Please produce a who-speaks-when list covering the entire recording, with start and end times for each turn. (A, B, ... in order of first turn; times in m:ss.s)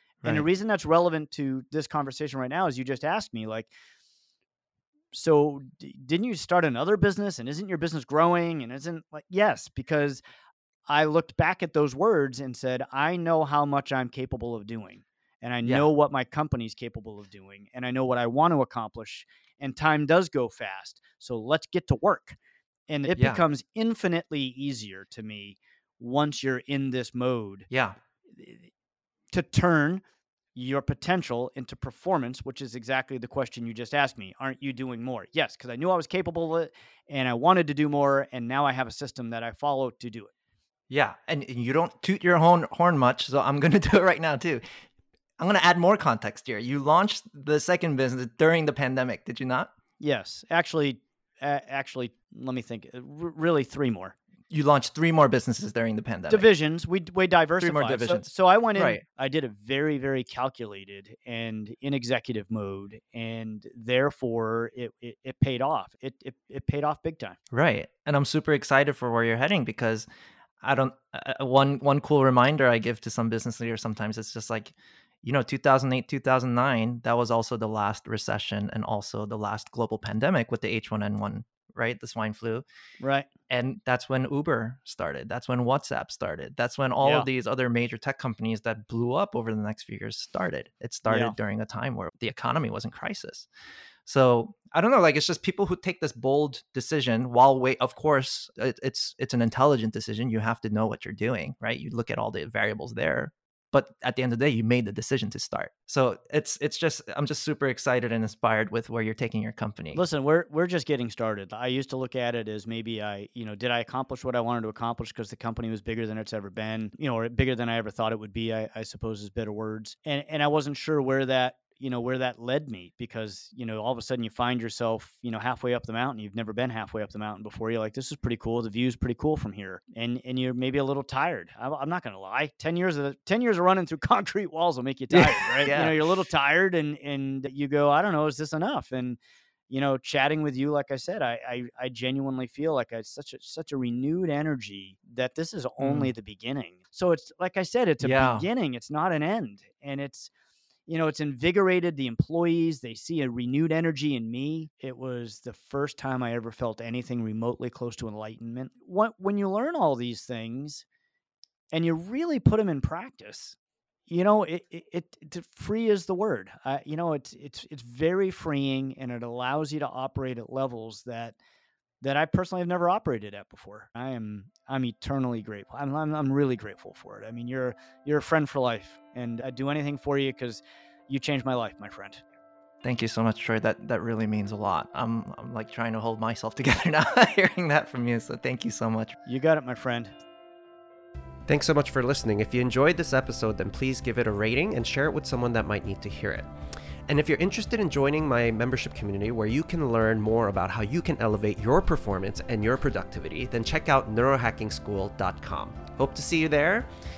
0:00.2-0:00.5 A
0:00.2-0:03.7 B
0:05.1-0:10.2 B
0:10.9-0:22.4 B
0:22.9-0:27.7 B
0:23.1-0:23.4 A
0:27.7-0:28.0 A
0:28.3-0:28.7 B
0:29.3-0:30.0 B
0:30.5-0:40.3 B
0:40.9-0:44.6 A
0:45.4-0:49.7 A
0:50.0-0:54.2 B
0:54.5-0:56.5 A
0:56.3-1:07.4 B
0:57.6-0:59.0 A
1:07.5-1:10.0 A
1:10.6-1:22.6 A
1:23.0-1:23.3 B
1:23.5-1:33.5 A
1:31.1-1:31.4 B
1:34.0-1:50.0 A
1:49.9-2:19.2 B
2:15.1-2:16.1 A
2:19.7-2:30.3 B
2:25.8-2:26.1 A
2:28.0-2:28.5 A
2:30.9-2:40.8 B
2:41.7-2:43.6 B
2:44.1-2:51.4 B
2:52.0-3:02.2 B
3:02.8-3:09.2 A
3:09.2-3:10.1 B
3:11.5-3:16.5 C
3:17.1-3:26.9 C